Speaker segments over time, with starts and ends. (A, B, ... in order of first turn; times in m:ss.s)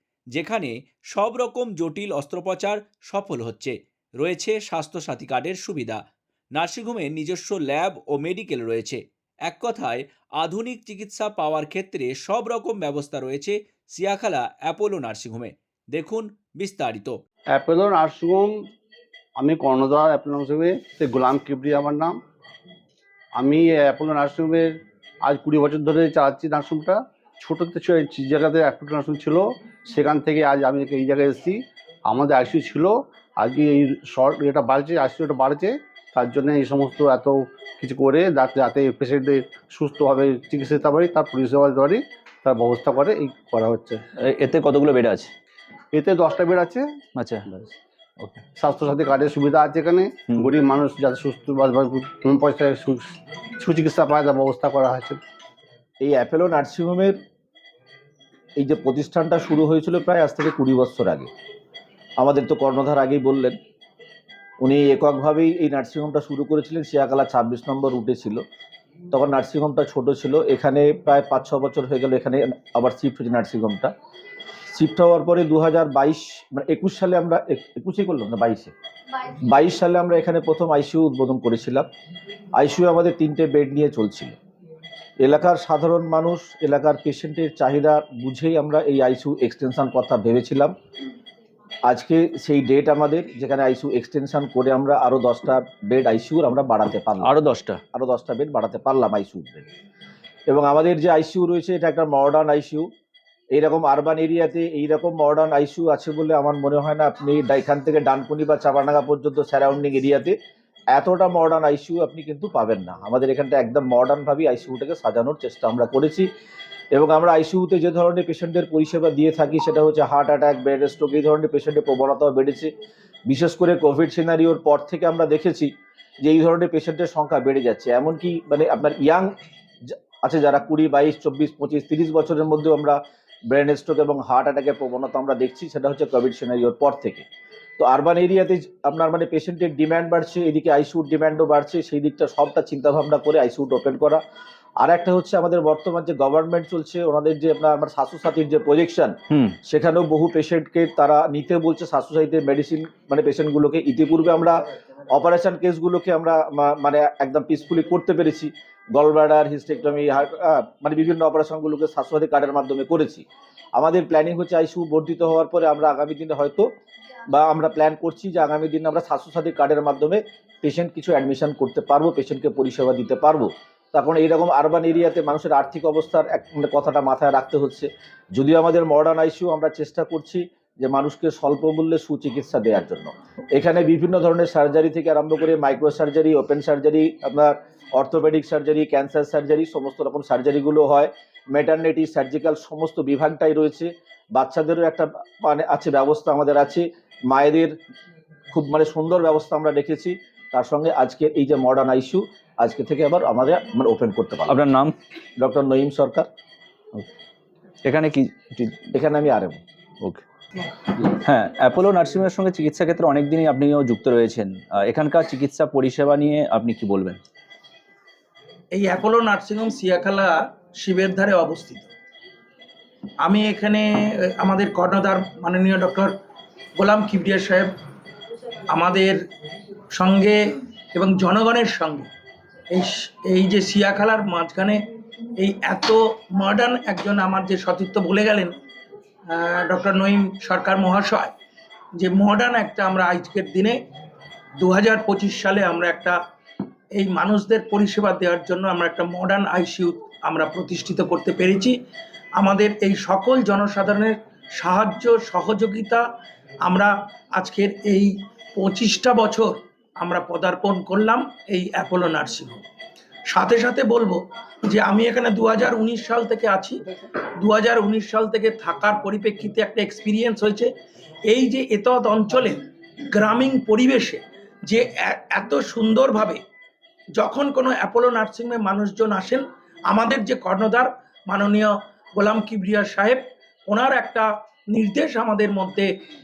0:00.3-0:06.0 A
0:06.6-0:17.2 A
0:17.5-0:18.6 B
0:19.4-0:22.2 B
0:23.4-0:44.0 B
0:44.2-0:45.3 C
0:45.9-0:46.8 B
0:48.6-0:55.2 B
0:56.0-0:57.2 D
0:58.6-1:01.3 D
1:02.2-1:03.6 D
1:04.6-1:08.4 D
1:09.1-1:13.9 D
1:14.7-1:18.7 D
1:19.4-1:21.9 D
1:22.6-1:24.4 D
1:25.2-1:30.7 D
1:31.9-1:37.4 D
1:37.3-1:37.8 C
1:37.9-1:39.7 D
1:40.5-1:42.9 D
1:43.5-1:50.4 D
1:50.9-1:56.3 D
1:56.9-2:02.7 D
2:03.3-2:05.7 D
2:06.2-2:09.3 D
2:09.9-2:13.0 D
2:13.5-2:17.2 D
2:17.8-2:24.2 D
2:24.8-2:34.5 D
2:35.1-2:46.7 D
2:47.3-3:17.7 D
3:18.5-3:24.6 D
3:25.4-3:26.3 D
3:27.8-3:28.8 C
3:28.9-3:29.6 D
3:31.1-3:37.2 C
3:38.7-3:41.9 E
3:43.2-3:46.1 E
3:46.8-3:47.7 E
3:48.7-3:49.2 E
3:49.9-3:50.4 E
3:50.9-3:52.1 E
3:52.7-3:54.8 E
3:55.4-3:58.5 E
3:59.3-4:01.3 E
4:02.0-4:03.8 E
4:04.6-4:06.2 E
4:07.0-4:11.8 E
4:12.4-4:16.0 E
4:16.6-4:22.6 E
4:23.3-4:26.8 E
4:27.4-4:30.7 E
4:31.3-4:32.6 E
4:33.1-4:36.4 E
4:37.2-4:45.9 E